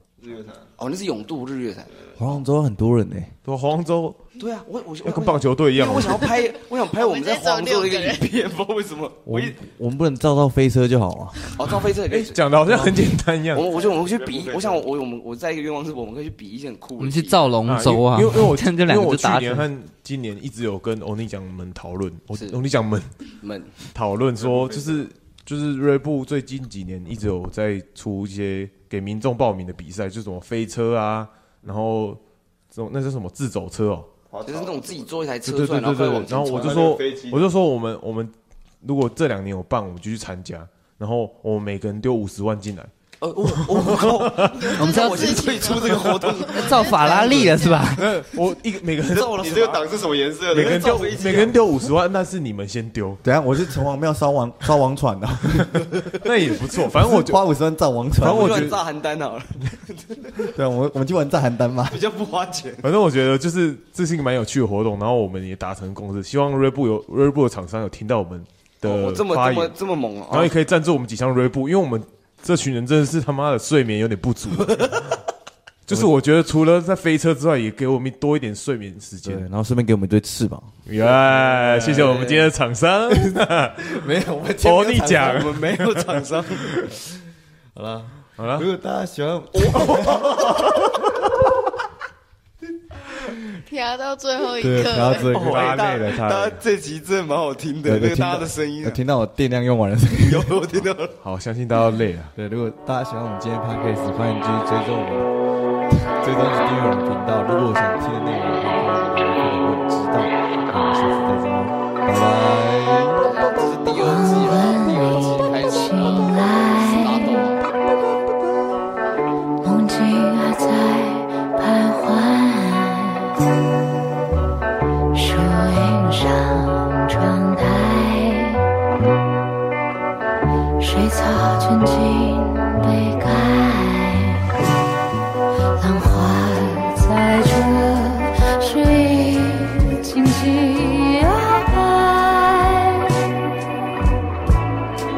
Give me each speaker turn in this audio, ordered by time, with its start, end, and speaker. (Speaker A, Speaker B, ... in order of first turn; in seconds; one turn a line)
Speaker A: 0.2-0.7
Speaker B: 0.8-1.9
Speaker C: 2.1-3.3
Speaker D: 3.4-4.2
Speaker B: 4.4-9.6
Speaker D: 5.0-6.3
Speaker E: 6.4-8.2
Speaker C: 9.2-11.4
Speaker B: 11.5-12.4
Speaker D: 12.1-13.7
Speaker C: 12.7-13.0
Speaker B: 13.5-17.5
Speaker A: 13.7-14.8
Speaker F: 17.0-19.7
Speaker D: 17.6-23.1
Speaker B: 22.3-22.6
Speaker B: 23.4-23.8
Speaker D: 23.9-32.2
Speaker A: 24.4-25.1
Speaker D: 32.7-34.1
Speaker A: 34.3-35.1
Speaker B: 34.4-36.9
Speaker D: 35.4-42.9
Speaker A: 36.5-37.5
Speaker B: 43.2-47.5
Speaker D: 43.7-44.7
Speaker E: 44.4-48.0
Speaker F: 44.8-45.7
Speaker F: 46.5-48.2
Speaker D: 47.8-49.6
Speaker B: 49.0-51.6
Speaker A: 49.2-51.2
Speaker D: 50.5-53.2
Speaker C: 53.2-56.1
Speaker D: 56.1-57.5
Speaker C: 56.9-58.8
Speaker D: 58.2-58.8
Speaker B: 58.2-60.5
Speaker C: 60.4-62.0
Speaker B: 61.9-62.8
Speaker D: 62.8-69.7
Speaker B: 68.8-70.5
Speaker D: 70.3-75.2
Speaker D: 75.9-79.4
Speaker C: 79.2-82.3
Speaker D: 80.9-84.1
Speaker B: 81.8-82.5
Speaker C: 83.1-85.6
Speaker D: 84.6-86.2
Speaker B: 85.1-86.8
Speaker C: 87.7-91.3
Speaker D: 88.4-88.7
Speaker B: 89.7-90.6
Speaker E: 93.7-95.3
Speaker C: 94.6-96.1
Speaker D: 95.2-96.6
Speaker B: 95.3-99.0
Speaker C: 97.8-100.6
Speaker B: 100.2-101.2
Speaker D: 101.2-102.3
Speaker C: 102.3-105.3
Speaker C: 105.9-113.4
Speaker B: 113.2-117.6
Speaker G: 113.9-117.5
Speaker G: 119.6-123.3
Speaker G: 125.1-128.6
Speaker G: 130.8-134.5
Speaker G: 135.8-143.0